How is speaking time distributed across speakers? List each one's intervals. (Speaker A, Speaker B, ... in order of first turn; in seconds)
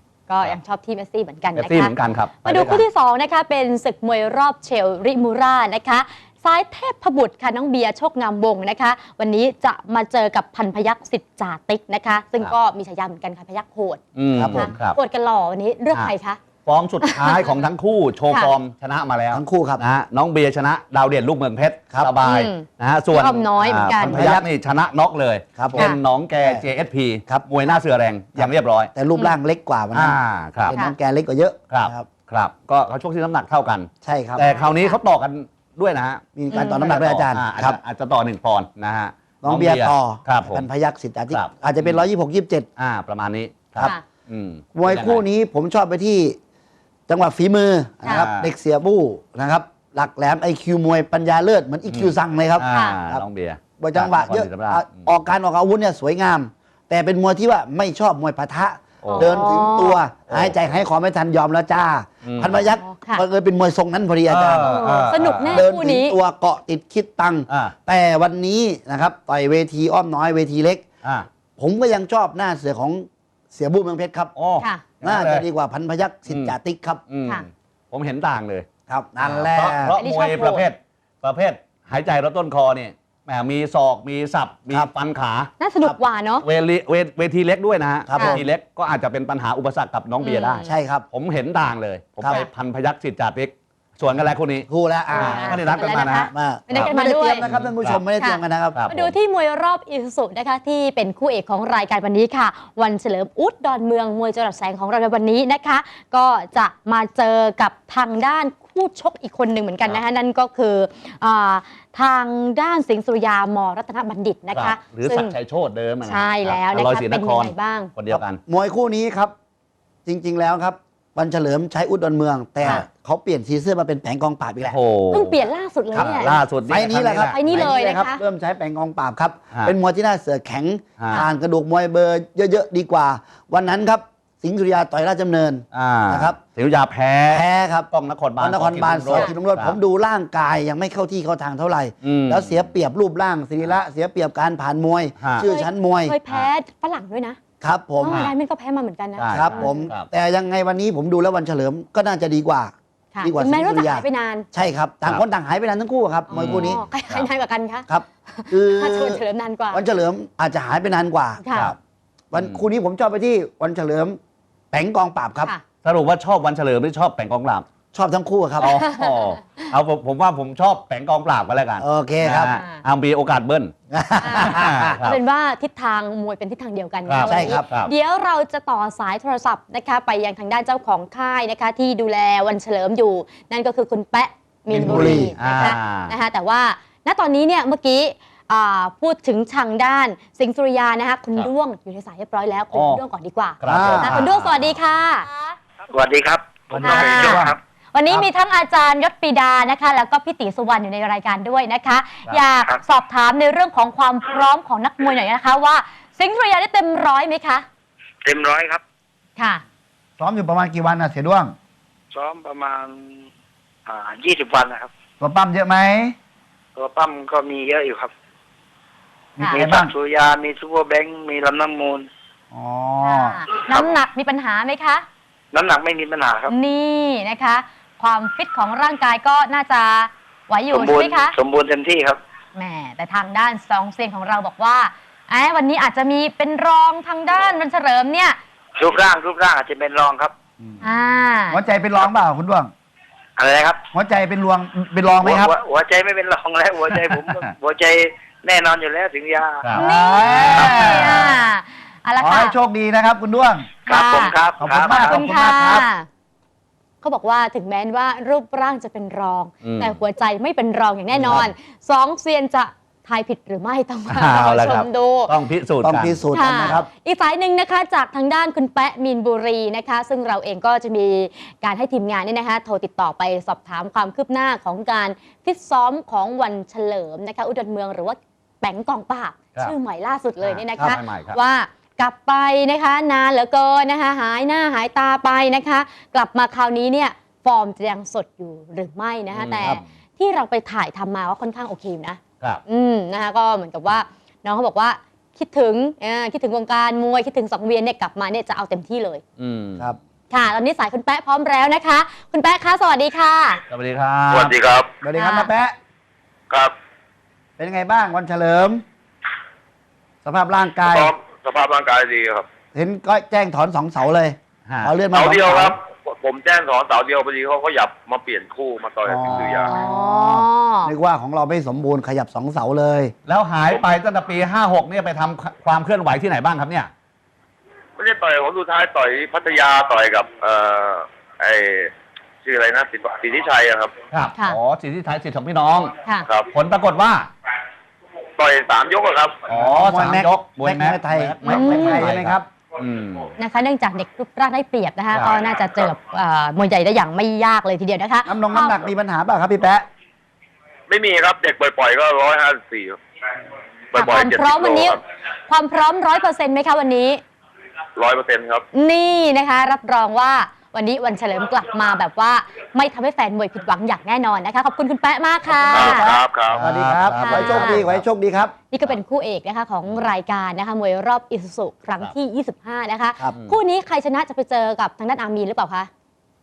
Speaker A: 0.3-14.0, 14.5-16.4, 17.0-17.5, 22.2-24.2, 34.4-35.0, 36.5-36.9, 52.7-53.0, 59.1-60.0, 62.5-63.2, 64.6-66.2, 80.0-80.7, 85.6-86.5, 90.2-90.7, 95.1-97.5, 98.2-115.3, 116.0-117.9, 125.1-126.4, 127.3-128.2, 145.4-147.4, 148.0-149.9, 153.1-154.5, 156.3-159.8, 161.4-161.7, 168.6-169.7, 172.3-172.8, 174.2-195.6, 196.8-207.7, 209.4-209.6, 223.0-225.1, 226.5-231.4, 232.6-238.4, 240.8-241.6, 249.8-252.6, 253.9-254.4, 254.9-256.1, 257.0-265.3, 266.3-299.2, 300.3-303.6, 305.1-305.5, 319.7-320.9, 341.4-342.1, 343.4-348.9, 354.0-357.2, 358.7-366.1, 367.1-367.8, 368.7-375.9
Speaker B: 1.6-2.8, 14.2-15.0, 16.7-28.9, 29.9-30.8, 31.7-40.7, 41.3-42.1, 42.8-45.2, 48.1-48.5, 51.9-55.1, 59.0-59.5, 60.3-60.6, 62.2-62.6, 64.3-65.7, 67.5-67.7, 74.3-75.5, 76.3-76.6, 77.1-78.7, 79.2-85.5, 86.4-98.0, 98.7-99.1, 114.5-118.4, 124.6-127.8, 131.0-131.2, 135.7-139.8, 142.0-142.7, 145.2-145.5, 149.2-150.1, 156.3-157.3, 162.3-162.6, 165.8-167.7, 168.6-173.7, 174.2-175.2, 177.1-177.9, 184.7-186.2, 192.7-193.0, 193.6-194.8, 249.6-251.4, 259.6-260.0, 261.1-261.5, 264.1-266.8, 280.4-281.4, 289.3-289.8, 299.4-299.9, 303.7-304.7, 314.7-314.9, 323.3-326.9, 334.1-335.9, 336.5-337.3, 339.5-343.3, 345.1-345.4, 366.5-368.1
Speaker C: 14.3-14.7, 19.3-19.8, 23.9-24.5, 25.6-26.6, 28.4-32.1, 34.0-34.5, 36.4-37.8, 39.4-42.7, 44.8-46.4, 47.1-53.2, 53.8-70.8, 71.6-74.3, 75.0-77.0, 78.9-80.0, 88.1-88.5, 90.7-91.0, 94.7-98.8, 118.1-119.3, 120.1-124.8, 125.9-136.4, 137.3-146.2, 147.6-148.3, 149.3-156.8, 157.9-161.4, 162.3-164.2, 164.7-165.5, 167.9-168.7, 171.8-172.5, 173.9-175.0, 177.2-177.7, 184.7-185.3, 193.7-194.1, 196.7-197.5, 210.2-211.5, 215.2-216.2, 219.4-219.9, 222.5-223.4, 241.5-242.7, 243.9-245.5, 249.8-251.3, 252.2-253.8, 254.6-255.8, 261.1-261.5, 265.8-266.9, 305.0-305.8, 307.6-308.8, 310.2-311.1, 312.7-315.8, 319.1-323.1, 339.5-342.5, 348.3-349.9, 365.5-368.5
Speaker D: 195.9-197.6, 208.2-208.8, 212.1-213.2, 213.9-214.9, 216.8-218.1, 219.5-222.1, 225.5-226.5, 230.7-232.2, 238.8-240.3, 243.4-243.8, 245.2-249.7, 253.9-255.2
Speaker E: 304.3-304.9, 310.9-312.5, 315.1-319.7, 328.0-331.9, 332.4-333.9, 338.4-339.4, 350.9-353.0, 353.9-355.0, 358.0-358.6, 365.7-366.6